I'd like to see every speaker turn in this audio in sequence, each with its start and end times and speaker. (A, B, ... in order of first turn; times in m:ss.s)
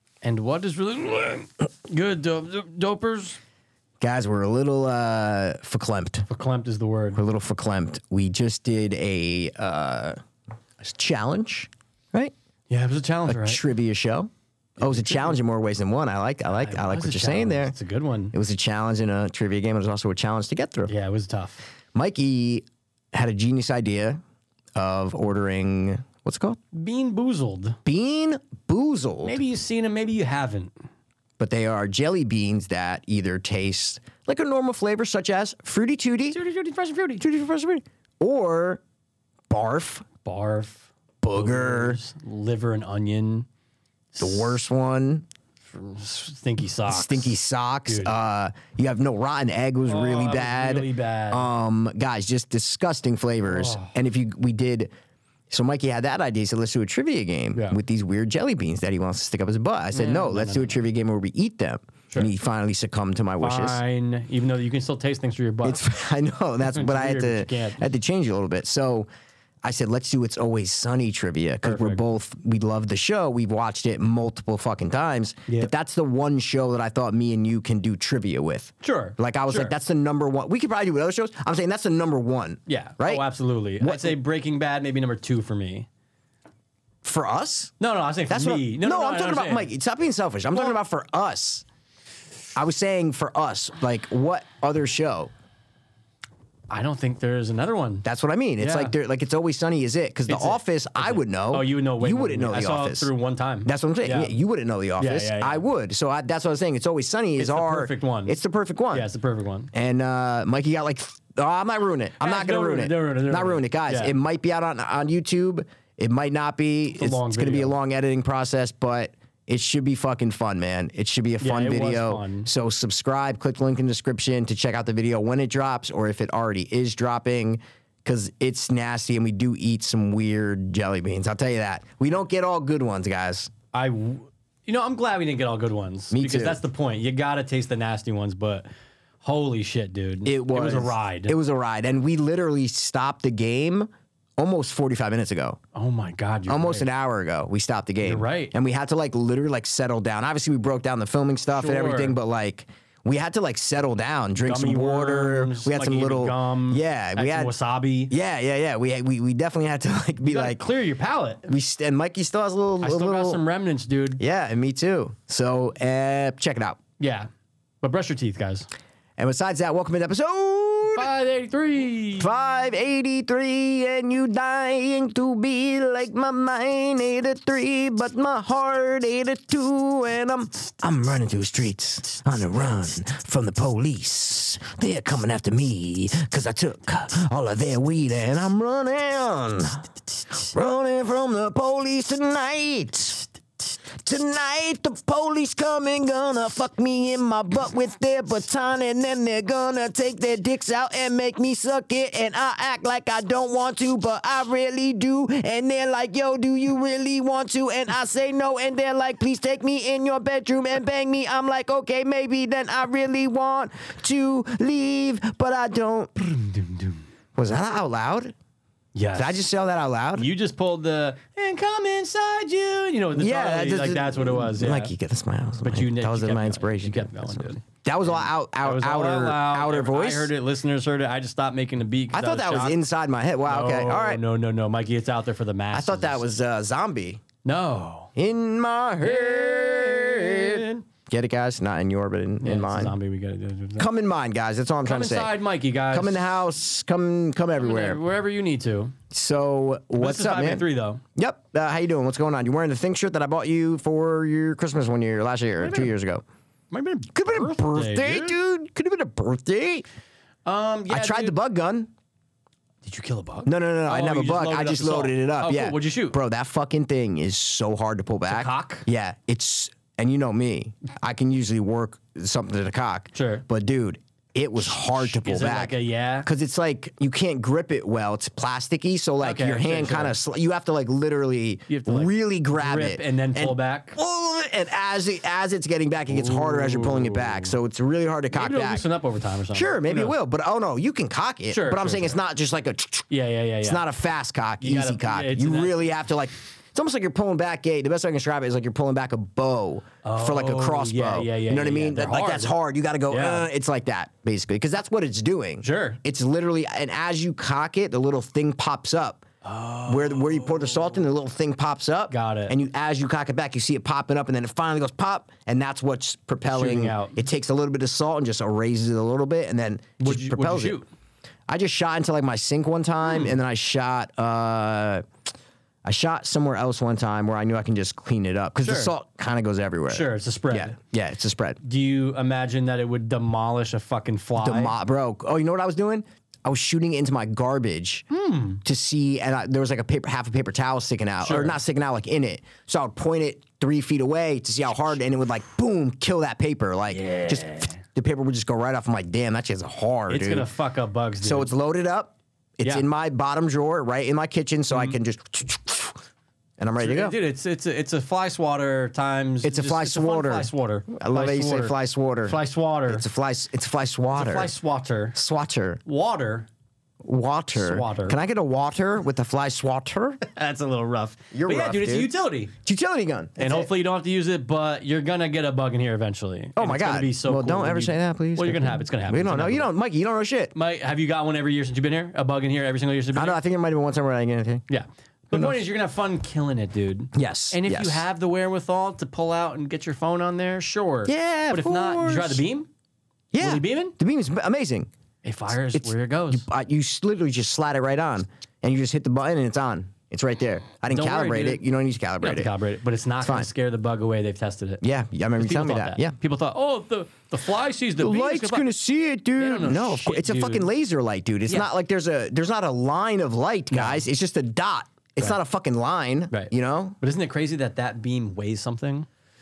0:00.2-0:03.4 A
0:04.0-0:06.3 B
0:06.3-0:07.2 A
0:07.2-0:10.2 B
0:10.8-0:12.3 B
0:12.7-0:13.6 A
0:13.3-0:17.8 B
0:14.8-0:15.4 A
0:16.5-0:18.3 A
0:18.3-0:20.9 B
0:20.9-0:21.6 A
0:21.9-0:24.2 B
0:24.8-0:26.6 B
0:26.7-0:27.8 A
0:27.8-0:29.4 B
0:29.2-0:30.7 A
0:31.4-0:36.4 B
0:36.3-0:37.2 A
0:37.2-0:38.8 B
0:39.5-0:40.1 B
0:40.2-0:43.5 A
0:41.2-0:42.0 B
0:44.1-0:44.6 A
0:44.2-0:45.2 B
0:45.6-0:47.4 A
0:46.9-0:54.9 B
0:47.9-0:48.1 A
0:49.9-0:51.5 A
0:53.5-0:53.9 A
0:55.5-1:03.8 B
0:59.9-1:00.8 A
1:03.4-1:05.8 A
1:05.6-1:09.1 B
1:06.6-1:07.8 A
1:09.6-1:23.3 B
1:11.6-1:12.0 A
1:18.8-1:19.8 A
1:22.7-1:25.9 A
1:23.8-1:24.2 B
1:27.0-1:27.7 B
1:27.8-1:29.7 A
1:28.3-1:31.6 B
1:32.6-1:35.3 B
1:36.7-1:38.0 A
1:38.0-1:43.1 B
1:38.6-1:38.9 A
1:40.3-1:44.4 A
1:43.6-1:49.1 B
1:45.0-1:45.6 A
1:47.4-1:48.4 A
1:48.9-1:49.7 A
1:49.7-2:13.5 B
1:52.2-1:54.1 A
1:57.0-1:57.8 A
2:01.4-2:02.5 A
2:13.7-2:18.6 A
2:16.1-2:16.6 B
2:19.2-2:21.4 A
2:20.2-2:25.6 B
2:25.7-2:26.9 A
2:26.5-2:37.5 B
2:28.0-2:28.5 A
2:31.5-2:32.2 A
2:34.4-2:38.1 A
2:38.1-2:40.6 B
2:40.2-2:41.5 A
2:41.5-2:43.4 B
2:42.8-2:44.2 A
2:44.2-2:46.8 B
2:47.0-2:47.3 A
2:47.8-2:48.7 A
2:49.2-2:51.1 B
2:51.0-2:52.3 A
2:52.2-3:09.9 B
3:10.4-3:13.3 B
3:13.9-3:36.4 B
3:36.4-3:37.0 A
3:37.4-3:38.3 B
3:38.9-3:39.4 A
3:39.2-3:40.3 B
3:40.2-3:44.9 A
3:43.2-3:50.3 B
3:45.6-3:52.8 A
3:52.1-3:54.2 B
3:53.5-3:56.2 A
3:55.7-3:57.2 B
3:57.4-3:58.1 A
3:58.2-4:03.0 B
3:59.0-4:00.8 A
4:02.4-4:03.9 A
4:03.8-4:05.3 B
4:04.8-4:06.3 A
4:05.9-4:08.0 B
4:07.6-4:09.0 A
4:09.1-4:10.6 B
4:10.0-4:11.0 A
4:11.2-4:16.2 B
4:15.6-4:15.9 A
4:16.7-4:18.4 A
4:17.1-4:19.8 B
4:20.4-4:21.4 A
4:20.9-4:21.9 B
4:22.8-4:26.2 A
4:23.4-4:35.7 B
4:28.3-4:28.9 A
4:33.1-4:33.4 A
4:34.6-4:36.3 A
4:36.2-4:48.8 B
4:39.2-4:40.2 A
4:41.7-4:44.0 A
4:46.1-4:47.5 A
4:48.3-4:50.2 A
4:49.5-4:53.1 B
4:51.5-4:52.2 A
4:53.1-4:53.8 A
4:53.6-5:09.2 B
4:54.6-4:55.8 A
5:00.0-5:02.6 A
5:03.1-5:03.5 A
5:05.6-5:06.0 A
5:09.4-5:11.0 A
5:09.9-5:20.8 B
5:12.1-5:12.6 A
5:16.5-5:17.2 A
5:20.0-5:20.8 A
5:21.5-5:25.0 B
5:23.0-5:23.4 A
5:25.8-5:31.6 B
5:28.6-5:28.9 A
5:29.9-5:30.8 A
5:31.6-5:34.8 A
5:34.4-5:38.1 B
5:38.1-5:38.6 A
5:38.6-5:50.5 B
5:41.2-5:41.6 A
5:46.9-5:47.8 A
5:50.1-5:51.5 A
5:51.2-5:56.0 B
5:54.7-5:55.0 A
5:56.6-5:57.2 B
5:56.8-6:03.1 A
5:59.4-6:02.4 B
6:02.9-6:04.5 B
6:04.1-6:05.2 A
6:05.1-6:05.8 B
6:05.8-6:06.5 A
6:07.0-6:10.2 B
6:07.5-6:08.2 A
6:10.2-6:12.5 A
6:11.3-6:12.1 B
6:12.6-6:13.7 B
6:13.4-6:19.7 A
6:16.6-6:20.5 B
6:20.5-6:23.4 A
6:23.2-6:24.6 B
6:24.7-6:32.7 A
6:25.3-6:25.6 B
6:27.1-6:28.0 B
6:31.1-6:32.4 B
6:33.3-6:34.9 B
6:33.4-6:34.0 A
6:35.2-6:36.4 A
6:35.7-6:42.5 B
6:40.9-6:41.6 A
6:42.2-6:44.8 A
6:43.2-6:43.5 B
6:44.8-6:46.2 B
6:45.4-6:48.7 A
6:48.0-6:57.0 B
6:49.4-6:50.7 A
6:53.7-6:54.0 A
6:56.3-6:59.1 A